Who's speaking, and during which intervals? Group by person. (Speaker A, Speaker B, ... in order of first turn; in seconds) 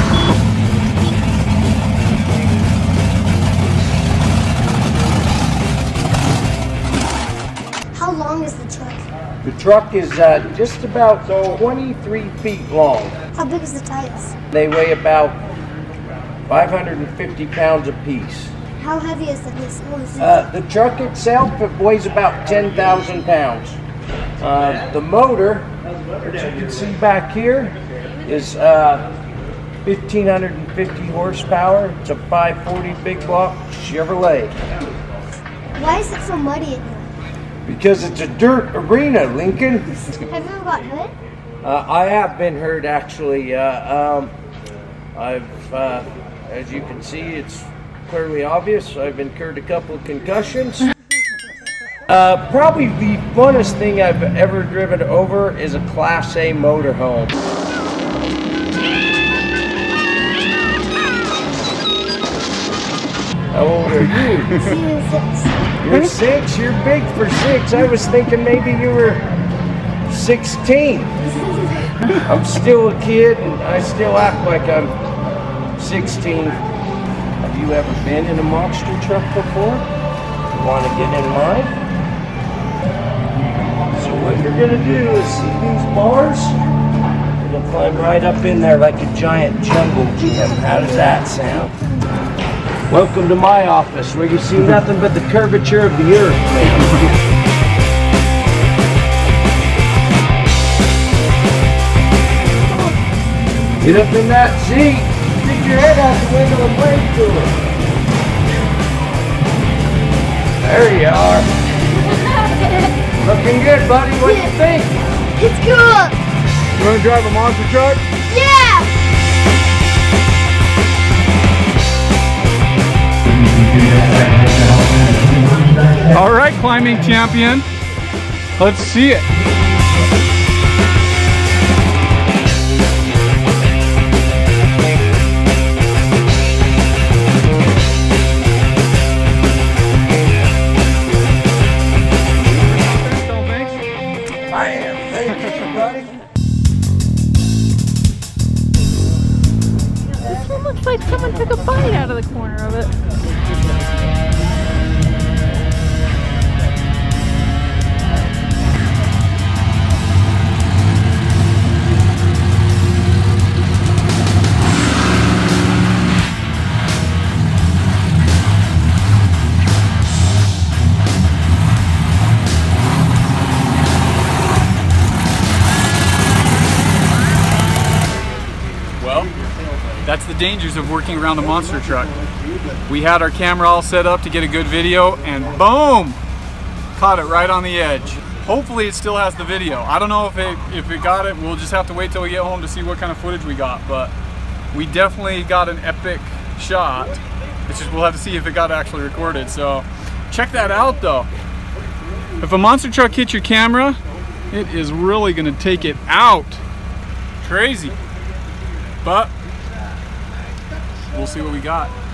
Speaker A: 7.9-9.1, 13.3-14.3, 18.8-20.5, 35.7-37.1, 40.1-41.1, 64.5-65.7, 71.4-71.9, 90.3-91.1, 114.2-114.6, 115.3-116.2, 118.3-118.9
Speaker B: 9.4-13.2, 14.5-15.4, 16.5-18.6, 20.2-23.8, 24.4-25.7, 26.2-29.1, 29.8-34.5, 37.6-40.0, 41.6-44.3, 45.1-50.9, 52.1-57.4, 63.5-64.7, 65.8-69.2, 70.0-71.2, 72.2-74.9, 75.8-76.6, 77.4-79.9, 80.5-81.8, 83.9-86.7, 87.4-91.7, 92.9-97.0, 103.8-107.6, 110.6-111.5, 113.2-115.0, 144.5-146.1
Speaker C: 116.7-118.0, 126.1-127.7, 128.6-129.3, 142.6-143.8, 178.9-179.3, 180.0-182.1, 182.8-186.2, 186.9-194.1, 194.7-201.3, 202.4-204.0, 204.5-206.6, 207.4-207.9, 209.0-209.3, 211.1-211.9
Speaker D: 150.2-152.9